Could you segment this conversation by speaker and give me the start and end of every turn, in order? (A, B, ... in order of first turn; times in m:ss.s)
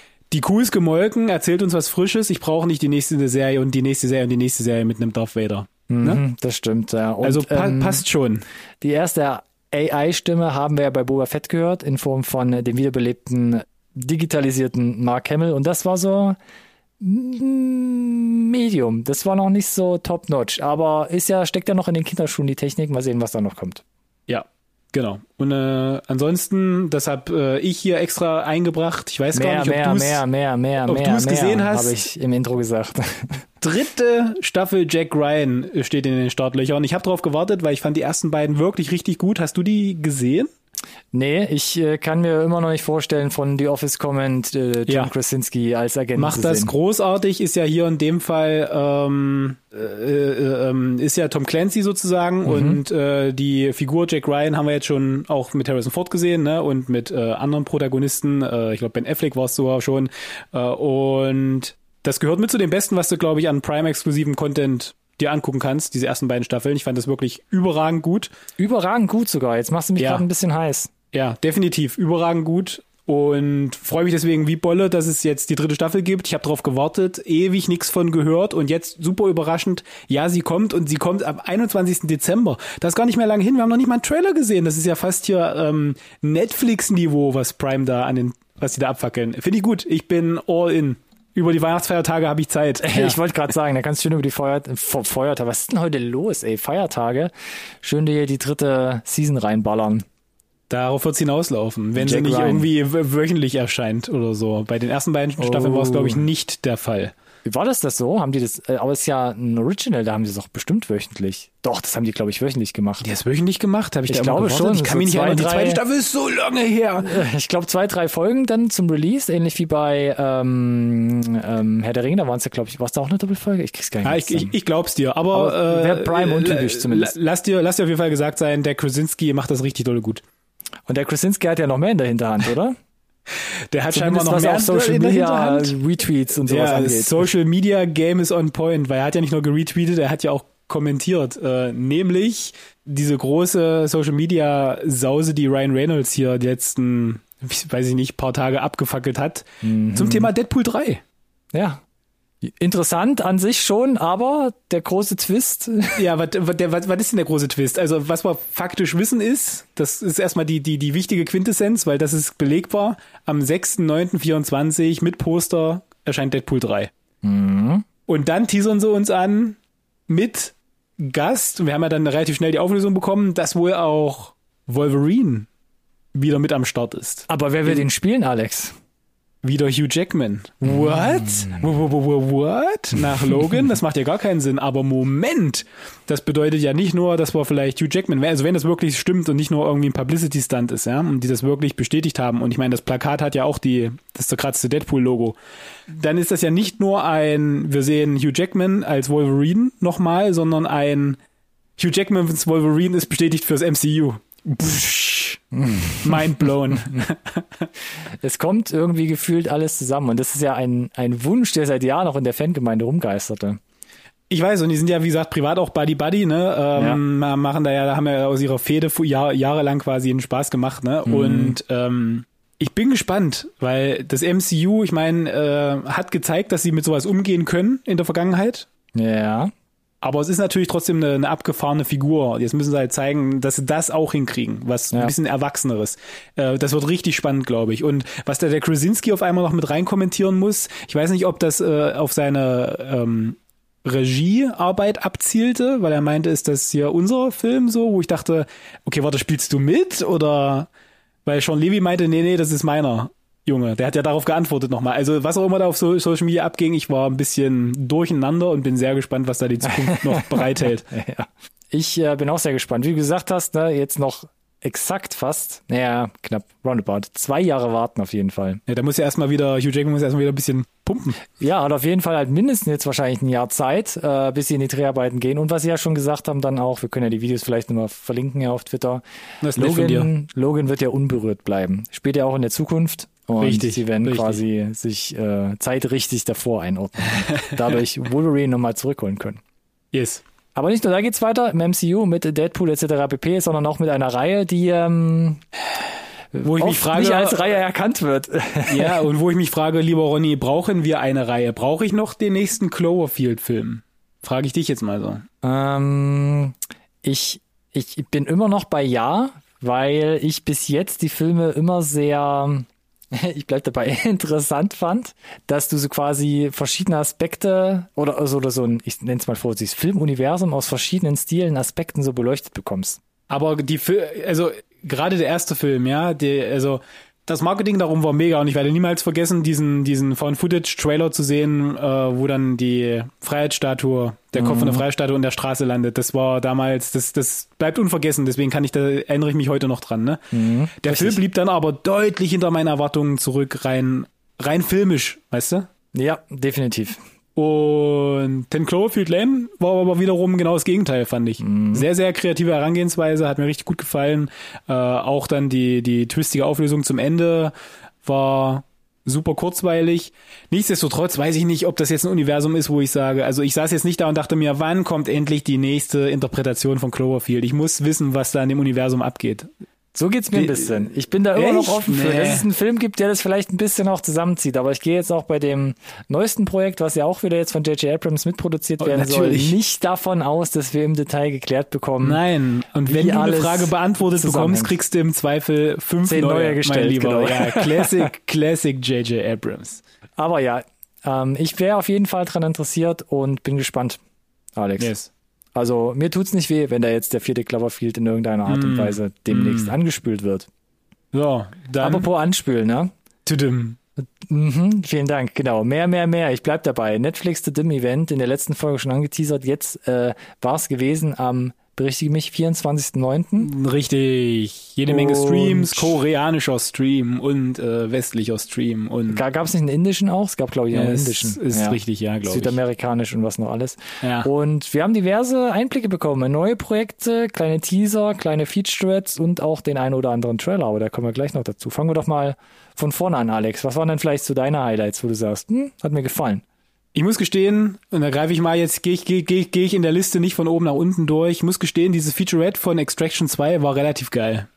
0:00.3-0:06.2 A
0:05.9-0:08.0 B
0:07.2-0:08.4 A
0:08.8-0:16.4 B
0:17.0-0:23.8 B
0:24.3-0:30.2 A
0:29.3-0:33.4 B
0:30.8-0:32.0 A
0:33.6-0:40.5 A
0:41.1-0:46.7 B
0:46.2-1:08.3 A
0:52.4-0:52.8 B
1:08.6-1:10.9 B
1:10.0-1:10.2 A
1:11.1-1:33.2 A
1:32.8-1:37.3 B
1:37.8-1:40.0 B
1:40.7-1:47.1 A
1:42.0-1:42.7 B
1:45.4-1:46.3 B
1:47.4-1:53.1 B
1:53.0-1:57.2 A
1:54.1-1:55.8 B
1:57.0-2:04.5 B
2:04.0-2:10.2 A
2:05.3-2:07.1 B
2:10.9-2:12.8 B
2:13.7-2:15.7 A
2:13.9-2:17.2 B
2:16.4-2:31.0 A
2:29.6-2:30.3 B
2:31.5-2:31.8 B
2:32.4-2:36.0 B
2:36.0-2:46.9 A
2:47.2-2:47.8 B
2:48.1-2:49.6 A
2:50.1-2:55.5 A
2:56.1-2:57.8 A
2:57.3-2:58.7 B
2:59.4-3:15.4 A
3:00.6-3:01.6 B
3:15.9-3:21.2 A
3:21.8-3:25.4 A
3:25.5-3:26.3 B
3:26.0-3:27.7 A
3:28.2-3:33.6 B
3:34.3-3:48.7 A
3:41.0-3:41.6 B
3:48.9-3:49.5 B
3:50.0-4:10.7 A
4:11.2-4:20.8 A
4:19.7-4:28.6 B
4:28.7-4:31.2 A
4:31.4-4:39.0 B
4:39.4-4:40.1 A
4:39.6-4:49.4 B
4:43.4-4:44.4 A
4:49.9-4:50.2 A
4:50.5-4:55.4 B
4:56.3-4:59.0 B
4:56.4-4:57.6 A
4:58.7-5:05.2 A
5:05.4-5:23.0 B
5:23.3-5:45.7 A
5:34.4-5:34.8 B
5:40.3-5:41.2 B
5:45.9-5:47.0 B
5:47.3-6:09.5 A
5:51.4-5:51.8 B
6:09.9-6:22.2 B
6:10.3-6:12.4 A
6:18.8-6:19.6 A
6:22.0-6:29.8 A
6:22.8-6:24.8 B
6:26.0-6:28.1 B
6:30.2-6:34.0 B
6:34.6-6:34.9 B
6:34.8-6:35.1 A
6:35.5-6:40.5 B
6:38.5-6:39.7 A
6:41.1-6:42.1 A
6:41.8-6:42.9 B
6:43.2-6:43.8 A
6:44.0-6:53.5 B
6:53.4-6:59.2 A
6:54.8-6:55.9 B
6:59.1-7:16.4 B
7:00.7-7:02.6 A
7:04.0-7:04.3 A
7:16.9-7:24.5 A